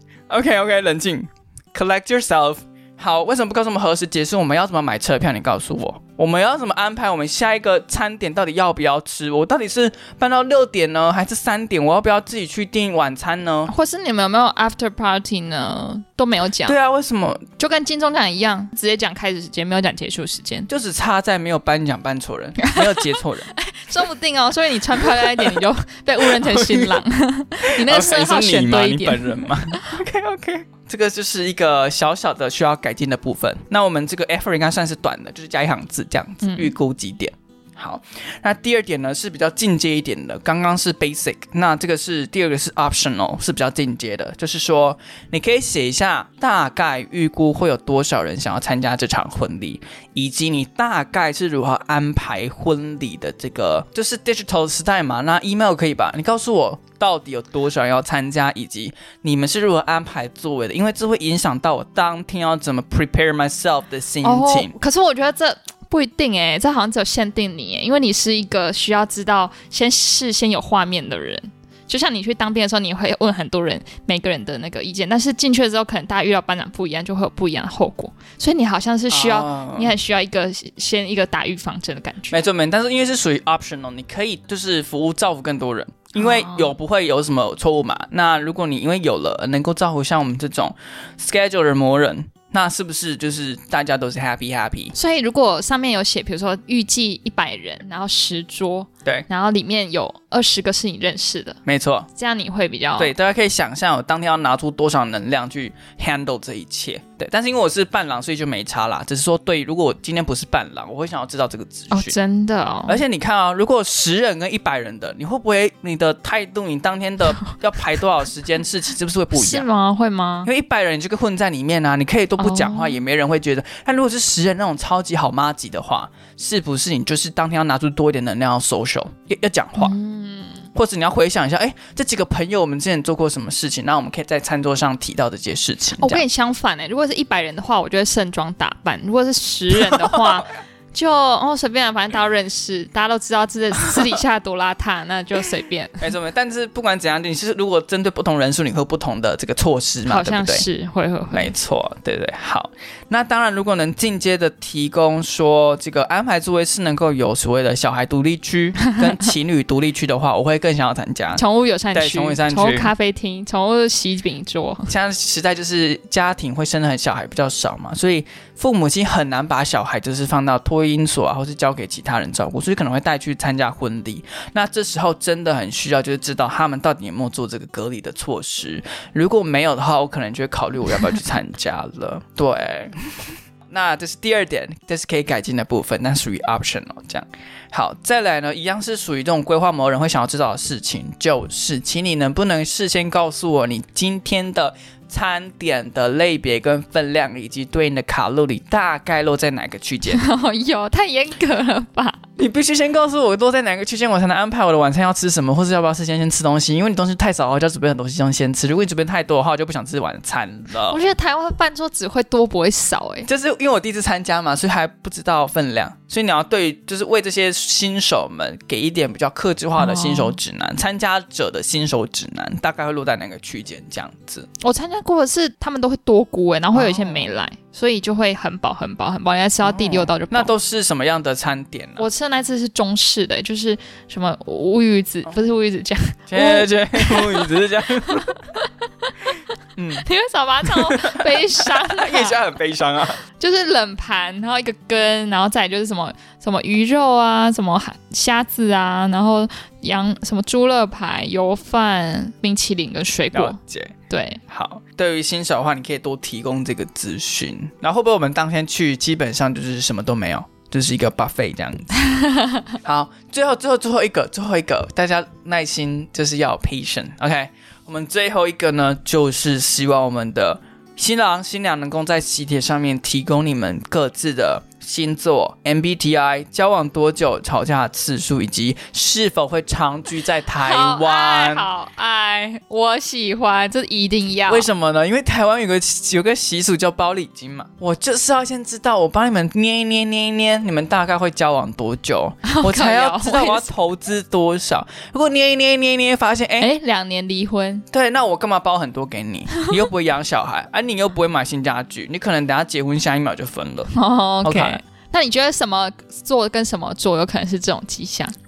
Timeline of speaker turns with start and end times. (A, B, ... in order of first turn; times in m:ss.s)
0:00.3-0:13.7 A
0:13.7-0:16.8 B
0:16.6-0:17.4 A
0:17.6-0:20.7 B
0:20.7-0:23.5 A
0:22.6-0:30.0 B
0:25.0-0:25.6 A
0:26.2-0:27.0 A
0:27.7-1:04.7 A
0:36.4-0:36.7 B
1:04.2-1:22.4 B
1:19.1-1:19.9 A
1:22.3-1:34.9 A
1:26.2-1:26.7 B
1:34.9-1:41.6 B
1:41.6-1:42.1 A
1:42.1-1:43.1 B
1:43.0-1:52.1 A
1:51.9-1:53.0 B
1:52.9-1:59.7 A
1:59.3-2:00.5 B
2:00.4-2:10.0 A
2:02.4-2:03.0 B
2:09.8-2:10.7 B
2:10.7-2:16.2 A
2:16.0-2:26.0 B
2:19.9-2:20.3 A
2:26.0-2:30.6 A
2:30.0-2:31.5 B
2:31.3-2:41.4 A
2:41.3-2:44.9 B
2:41.9-2:42.9 A
2:44.9-3:20.2 A
3:20.1-3:22.2 B
3:22.4-3:31.0 A
3:30.9-3:33.3 B
3:33.2-3:44.5 A
3:39.8-3:40.4 B
3:44.6-3:50.5 B
3:46.7-3:47.3 A
3:49.6-3:52.0 A
3:52.0-3:59.1 B
3:56.3-3:58.3 A
3:59.8-4:00.0 A
4:00.0-4:02.4 B
4:00.6-4:03.2 A
4:03.4-4:13.6 B
4:13.3-4:14.0 A
4:14.1-4:14.4 B
4:14.5-4:21.9 A
4:22.0-4:22.6 B
4:22.8-4:41.7 A
4:40.6-4:44.7 B
4:44.5-4:56.7 A
4:52.4-4:53.7 B
4:56.6-4:57.8 B
4:57.9-5:03.9 A
5:03.9-5:08.3 B
5:04.4-5:04.8 A